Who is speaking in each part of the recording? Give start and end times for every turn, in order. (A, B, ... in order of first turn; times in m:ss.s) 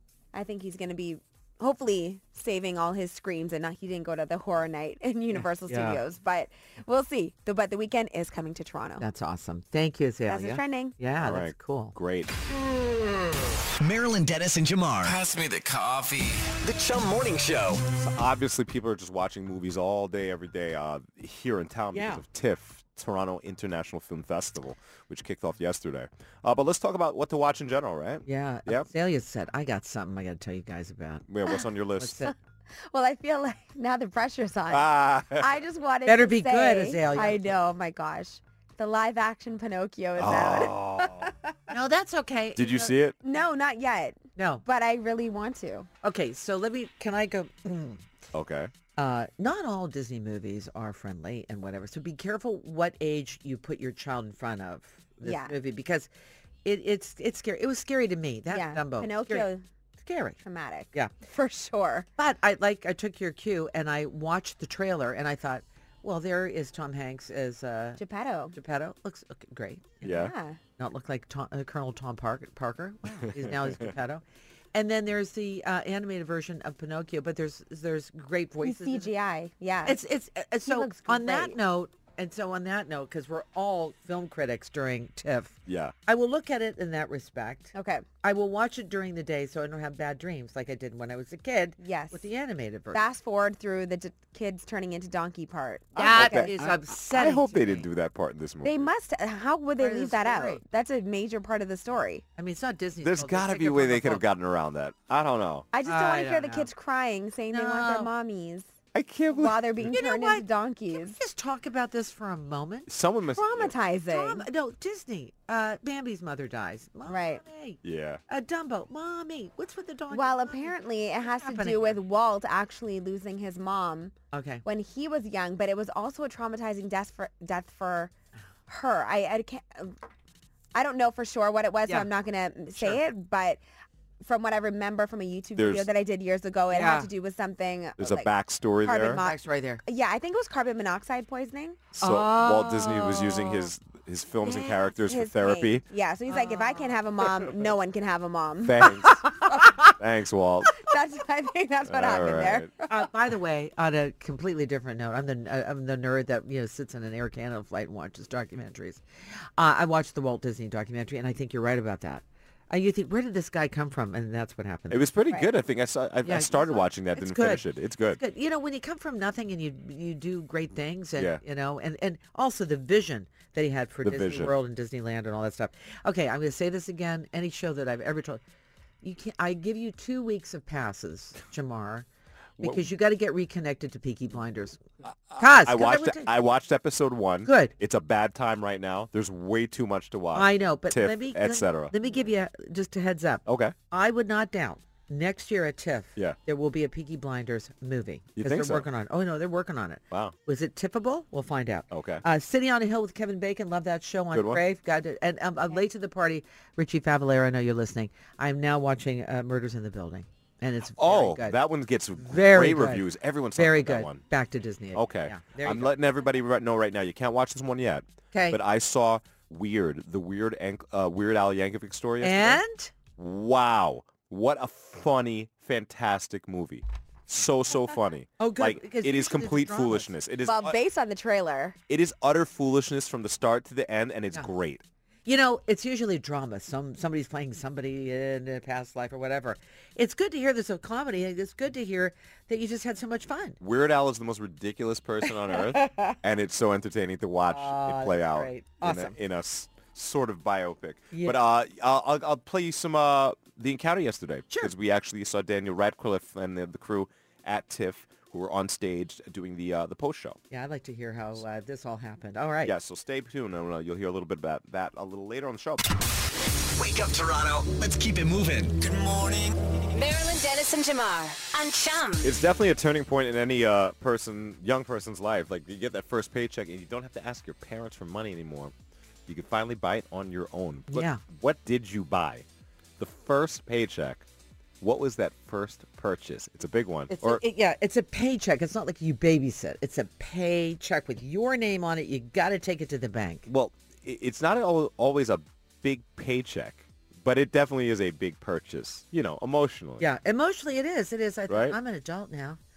0:00.3-0:09.0 A
0:05.4-0:06.0 B
0:09.0-0:11.9 B
0:10.3-0:11.0 A
0:11.2-0:12.3 C
0:13.8-0:15.2 D
0:15.0-0:16.6 E
0:16.6-0:17.8 D
0:18.0-0:28.9 C
0:21.9-0:22.2 B
0:28.3-0:31.3 B
0:31.3-0:32.3 C
0:32.0-0:32.3 B
0:32.9-0:40.8 A
0:34.7-0:35.6 C
0:36.1-0:37.6 B
0:40.2-0:41.3 C
0:41.7-0:42.9 B
0:42.6-0:43.2 C
0:43.2-0:45.9 A
0:44.4-0:44.6 B
0:46.0-0:48.0 B
0:48.3-0:48.7 C
0:49.0-0:56.1 B
0:55.2-0:55.6 A
0:56.6-0:59.5 B
0:58.5-0:59.6 A
1:00.0-1:00.4 B
1:00.4-1:02.1 A
1:02.2-1:08.0 B
1:08.0-1:08.6 A
1:08.5-1:10.2 B
1:10.0-1:10.3 C
1:10.0-1:10.6 A
1:10.8-1:19.1 B
1:13.2-1:13.9 C
1:18.6-1:20.0 A
1:19.8-1:25.6 B
1:20.6-1:21.6 A
1:25.7-1:25.9 C
1:26.1-1:33.0 B
1:27.8-1:28.1 A
1:31.8-1:32.2 A
1:32.9-1:36.7 A
1:36.0-1:37.9 B
1:36.0-1:38.9 C
1:38.6-1:42.2 A
1:39.8-1:40.6 B
1:42.4-1:44.2 B
1:43.0-1:45.7 C
1:45.7-1:48.7 A
1:45.8-1:46.7 B
1:47.5-1:48.1 B
1:48.9-1:49.6 C
1:49.3-1:51.2 A
1:49.9-1:52.9 B
1:52.9-1:53.8 C
1:53.4-1:54.5 A
1:54.1-2:02.0 B
1:57.1-1:57.4 A
1:57.8-1:58.2 C
2:00.1-2:08.1 A
2:04.3-2:04.6 B
2:08.7-2:10.0 A
2:10.8-2:13.6 A
2:14.2-2:18.3 A
2:15.6-2:15.9 C
2:16.7-2:17.1 B
2:18.0-2:19.2 C
2:18.8-2:21.9 A
2:19.1-2:19.8 B
2:21.9-2:25.8 C
2:22.0-2:23.4 B
2:24.6-2:28.9 A
2:26.3-2:26.9 B
2:28.6-2:29.3 C
2:29.1-2:29.9 B
2:29.8-2:30.8 C
2:30.8-2:33.0 A
2:31.9-2:32.7 C
2:32.9-2:39.0 B
2:39.6-2:45.1 B
2:44.9-2:48.2 C
2:46.2-2:47.6 B
2:48.2-2:58.4 B
2:51.2-2:51.4 C
2:54.0-2:54.5 C
2:59.0-3:02.1 B
3:02.6-3:02.8 C
3:02.6-3:04.8 B
3:05.0-3:11.9 C
3:05.4-3:06.3 B
3:07.4-3:07.7 B
3:10.3-3:31.6 B
3:13.5-3:13.8 C
3:18.4-3:18.9 C
3:20.1-3:20.4 C
3:21.9-3:22.2 C
3:24.3-3:24.6 C
3:31.0-3:34.2 C
3:32.2-3:36.0 B
3:34.9-3:42.6 C
3:38.3-3:38.6 B
3:42.2-3:42.9 B
3:43.2-3:50.8 C
3:48.4-3:50.1 B
3:50.4-3:51.8 A
3:51.9-3:54.8 C
3:55.3-4:03.6 B
4:03.6-4:20.4 C
4:05.5-4:06.2 B
4:07.5-4:09.2 B
4:11.1-4:11.4 B
4:20.5-4:22.7 B
4:22.6-4:25.8 C
4:26.7-4:29.3 D
4:28.8-4:29.5 E
4:29.9-4:32.3 F
4:32.2-4:38.7 C
4:39.3-4:42.4 C
4:40.9-4:41.2 B
4:43.0-4:44.3 C
4:44.8-4:47.4 C
4:47.1-4:53.5 B
4:53.5-5:00.1 C
5:00.0-5:02.6 B
5:01.5-5:01.8 C